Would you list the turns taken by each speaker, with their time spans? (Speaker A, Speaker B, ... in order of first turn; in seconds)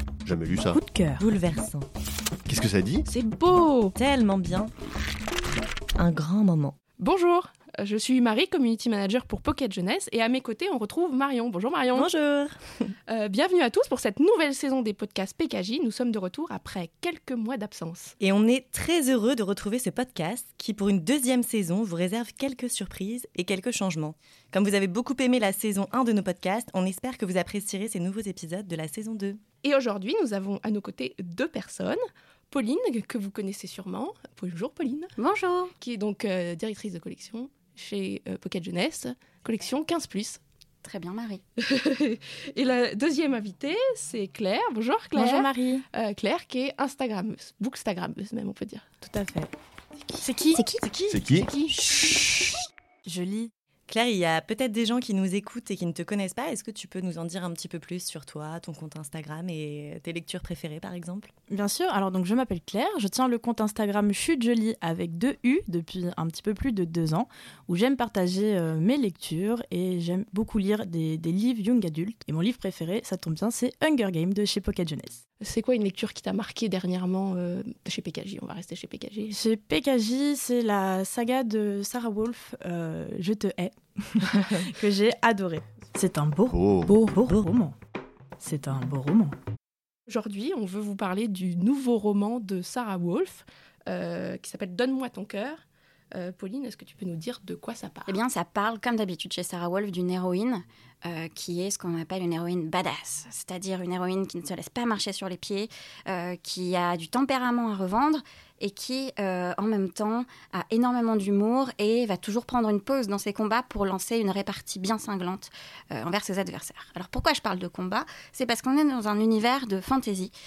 Speaker A: 0.2-0.8, 2.5-3.0, 51.1-51.5, 86.5-86.9
Speaker B: 0.7-1.2, 45.1-45.8, 49.0-49.5, 50.2-50.6, 53.0-53.5, 61.5-75.2, 79.3-87.7, 88.4-89.3
Speaker C: 1.2-1.9, 4.0-4.7, 6.0-6.7, 11.9-12.6, 18.2-29.4, 53.9-61.3
Speaker D: 3.1-3.9, 7.0-12.1, 13.1-18.1, 29.6-32.0, 32.5-35.1, 35.8-40.4, 41.6-48.9, 75.4-79.4, 90.1-95.6, 96.1-98.2
Speaker E: 35.2-35.7, 40.8-41.4, 50.5-51.0, 98.1-120.3